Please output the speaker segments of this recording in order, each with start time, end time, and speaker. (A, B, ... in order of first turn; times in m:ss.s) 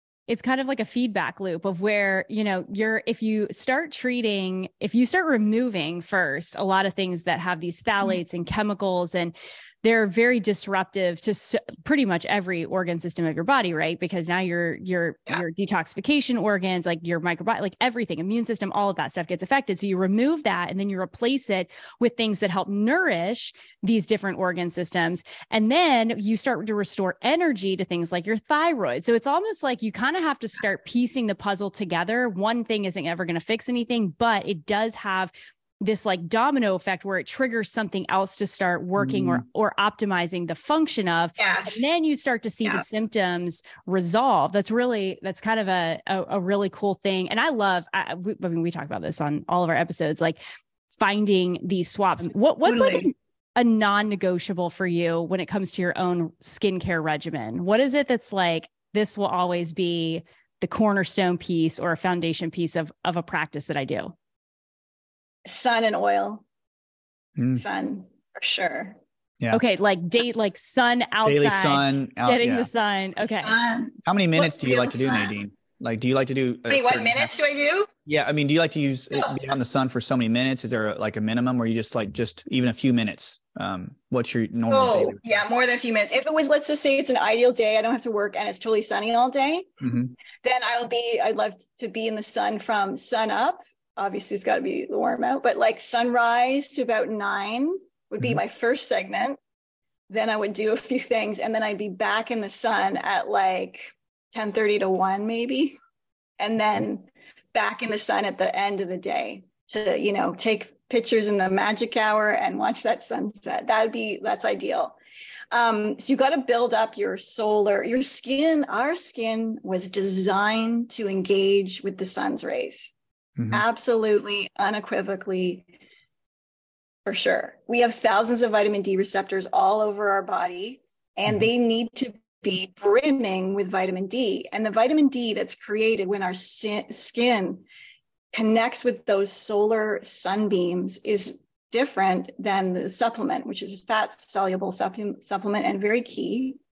0:00.3-0:50.4 A
0:39.0-0:39.4 B
0:41.4-0:42.0 C
0:50.9-1:04.1 A
0:52.6-0:53.1 C
1:05.5-1:06.4 C
1:07.4-1:07.6 B
1:07.5-1:09.0 C
1:09.5-1:13.5 A
1:11.2-1:12.7 B
1:13.2-1:15.3 C
1:14.1-1:17.4 B
1:16.7-1:17.9 C
1:18.1-1:25.4 B
1:24.7-1:29.7 C
1:29.8-1:30.1 B
1:30.4-1:39.4 C
1:40.1-1:45.8 C
1:46.4-1:55.0 C
1:55.5-2:02.9 C
2:03.4-2:03.6 B
2:03.5-2:05.7 C
2:07.1-2:17.6 C
2:18.3-2:26.6 C